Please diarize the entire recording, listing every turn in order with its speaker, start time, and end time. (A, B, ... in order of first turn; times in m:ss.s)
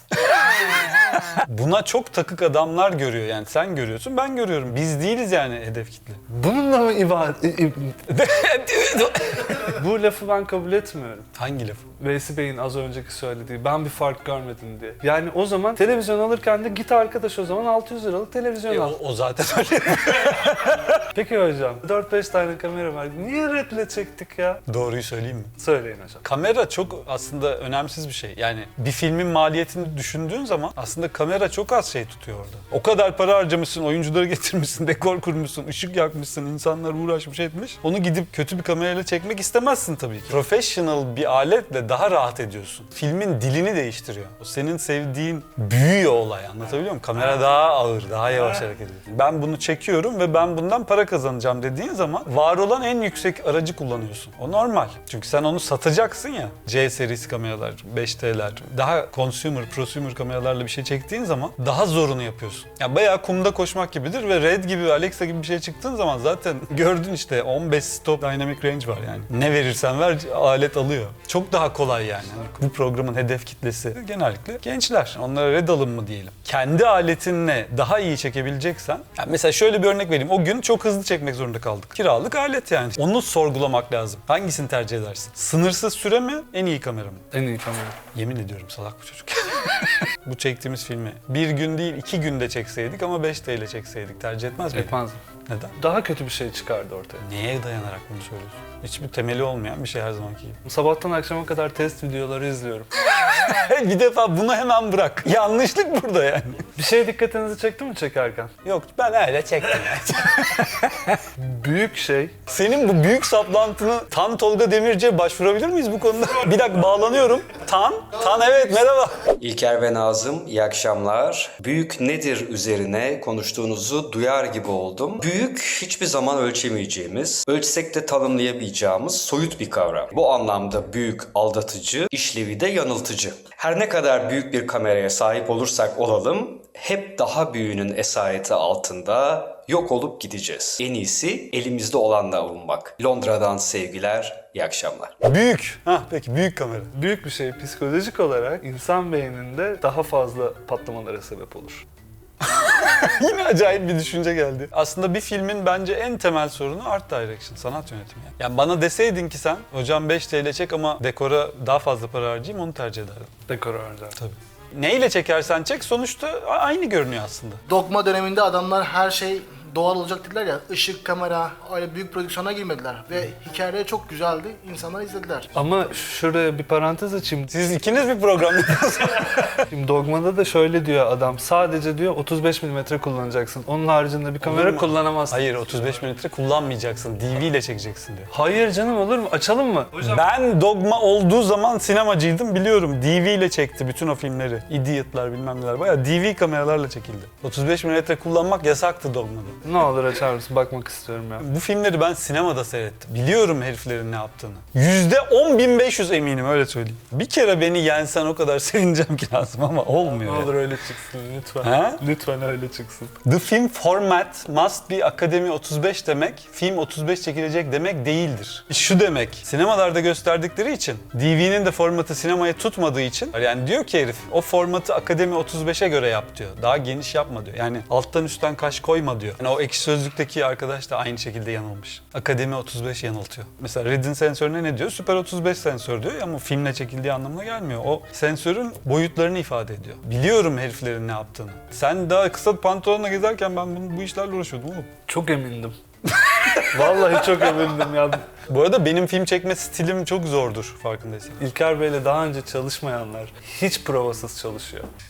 0:00.2-0:06.2 A
0:06.3-0:08.0 B
0:08.1-0:09.7 A
0:09.6-0:11.3 B
0:11.3-0:11.9 A
0:12.0-0:19.0 B
0:18.7-0:21.0 A
0:21.1-0:24.6 B
0:24.7-0:25.5 A
0:25.6-0:26.2 B
0:26.2-1:27.2 A
1:27.3-1:28.0 B
1:28.1-1:35.0 A
1:34.7-1:35.2 B
1:35.5-1:35.8 A
1:35.8-1:37.2 B
1:37.2-1:40.6 A
1:40.6-1:42.9 B
1:43.0-1:46.7 A
1:46.8-1:48.5 B
1:48.6-1:51.2 A
1:51.4-1:52.4 B
1:52.5-1:59.1 A
1:59.4-2:25.1 C
2:25.2-2:26.9 A
2:26.9-2:31.8 B
2:32.4-2:43.3 A
2:43.5-2:44.2 B
2:44.2-2:47.6 A
2:47.7-2:55.5 D
2:55.5-2:57.5 B
2:57.5-2:59.6 A
2:59.7-3:05.6 B
3:04.4-3:08.3 A
3:08.3-3:10.2 B
3:10.0-3:19.6 A
3:19.6-3:21.4 B
3:21.4-3:30.5 A
3:30.0-3:33.1 B
3:31.6-3:32.0 A
3:33.2-4:04.9 A
4:05.1-4:05.8 B
4:06.1-4:11.4 A
4:06.7-4:08.2 B
4:11.4-4:14.9 B